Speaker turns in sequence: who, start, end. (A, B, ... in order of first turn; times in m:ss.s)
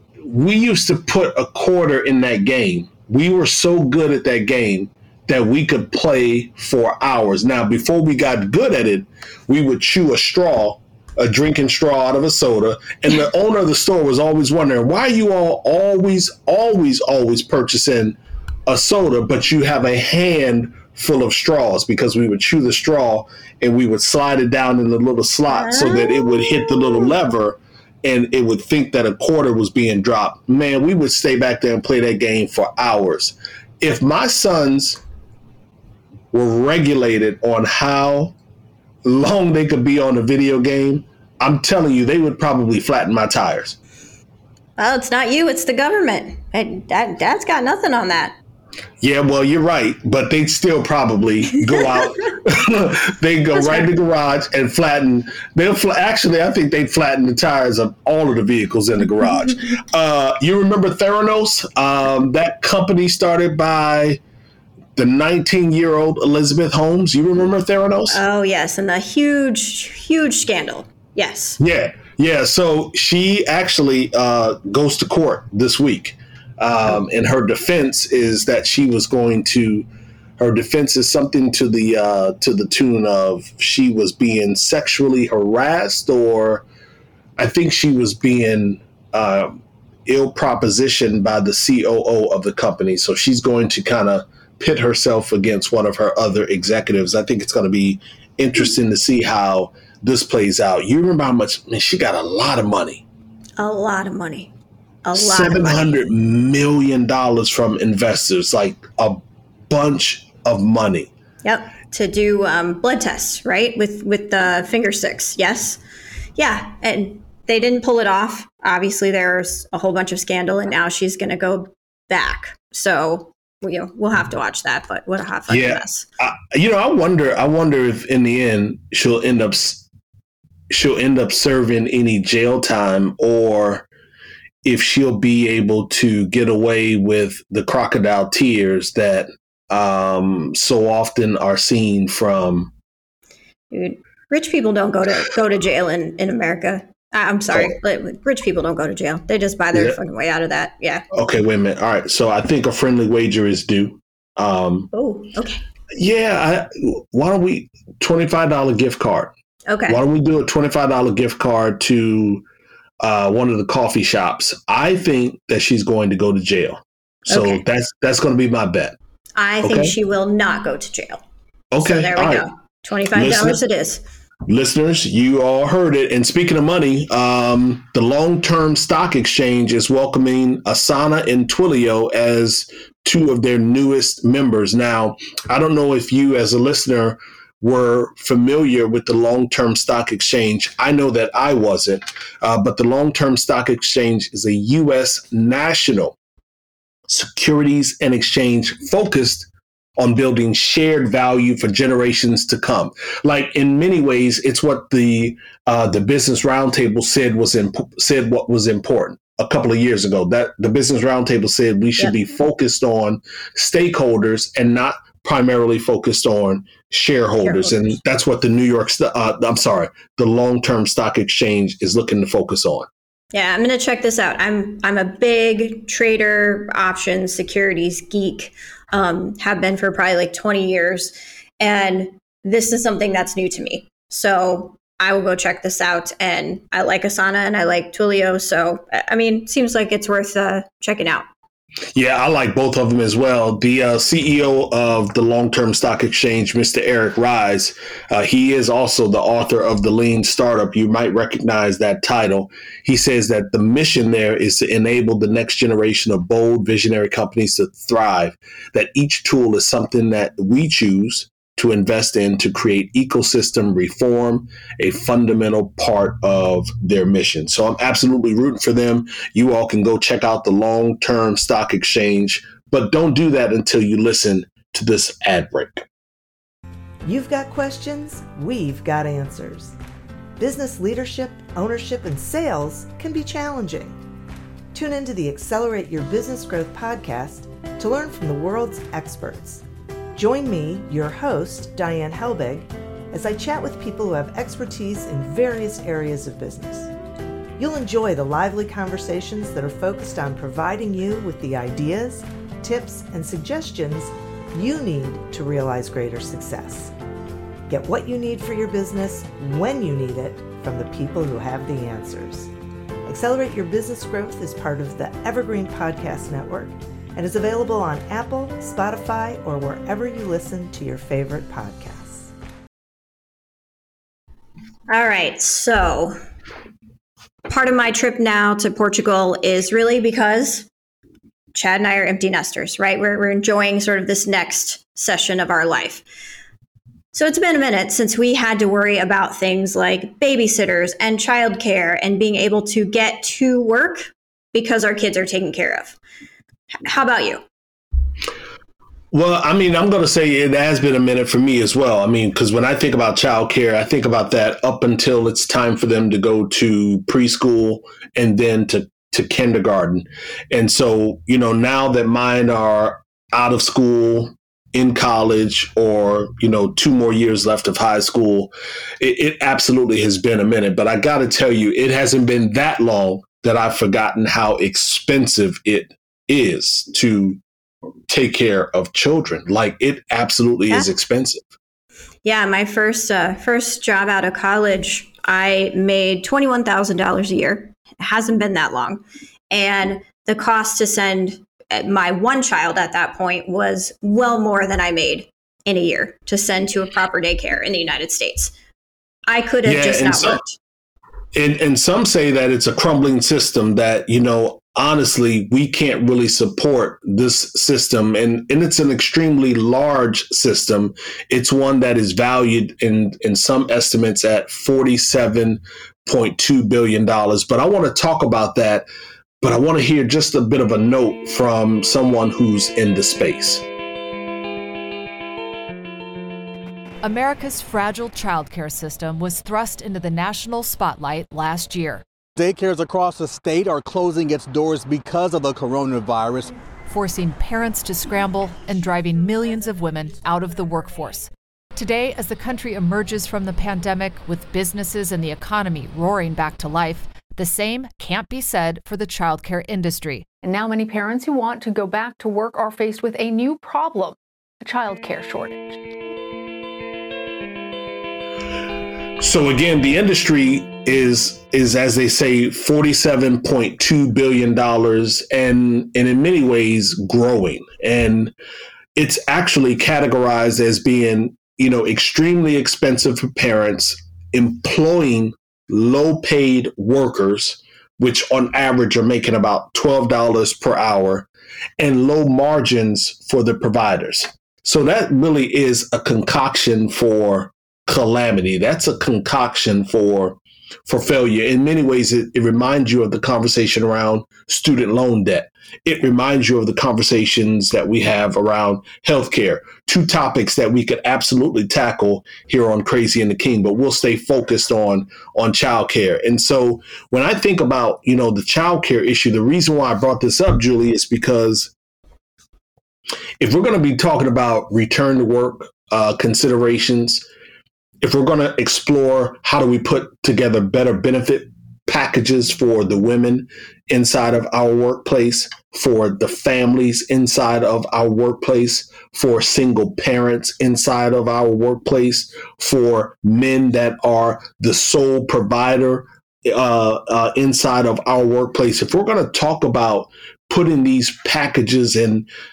0:00.2-0:35.0 A
0:25.5-0:27.1 B
0:36.3-0:38.3 A
0:39.0-0:43.8 A
0:44.8-0:48.4 B
0:49.0-1:04.2 A
0:53.6-0:53.9 B
1:05.0-1:08.2 A
1:08.1-1:11.6 B
1:11.6-1:19.8 A
1:20.4-1:26.6 A
1:27.4-1:43.0 A
1:43.6-1:44.5 B
1:45.0-1:46.0 B
1:45.1-1:51.1 A
1:51.4-1:55.8 B
1:56.4-2:06.0 B
2:05.5-2:09.8 A
2:10.7-2:13.8 A
2:14.6-2:22.7 A
2:23.7-2:31.0 B
2:31.1-2:34.9 A
2:34.9-2:35.6 B
2:35.9-2:39.3 A
2:39.7-2:40.0 B
2:39.9-2:42.4 A
2:43.0-2:49.0 A
2:47.3-2:47.6 B
2:49.4-2:51.2 B
2:49.6-2:49.9 A
2:51.7-2:52.4 A
2:51.8-2:54.0 B
2:53.1-2:53.6 A
2:54.5-3:16.1 A
3:17.1-3:42.9 A
3:37.4-3:38.0 B
3:43.3-4:01.2 B
4:01.9-4:35.8 A
4:37.0-4:39.8 C
4:40.4-4:44.0 C
4:44.7-4:49.6 C
4:50.1-4:56.9 C
4:57.6-5:06.9 C
5:07.7-5:12.5 C
5:13.0-5:22.3 C
5:24.9-5:26.2 B
5:27.5-5:30.7 B
5:31.5-5:36.0 B
5:37.1-5:46.0 B
5:46.8-5:47.4 B
5:49.1-6:17.4 A
6:18.1-6:21.4 A
6:22.2-6:38.5 B
6:39.3-6:40.6 B
6:39.6-6:40.4 A
6:41.3-6:58.9 A
6:59.4-7:03.6 A
7:07.0-7:12.0 D
7:12.4-7:16.5 E
7:16.9-7:30.3 D
7:30.4-7:35.7 F
7:39.2-7:48.3 A
7:48.9-8:01.3 A
8:01.8-8:31.7 A
8:33.4-8:37.2 A
8:38.0-9:02.3 A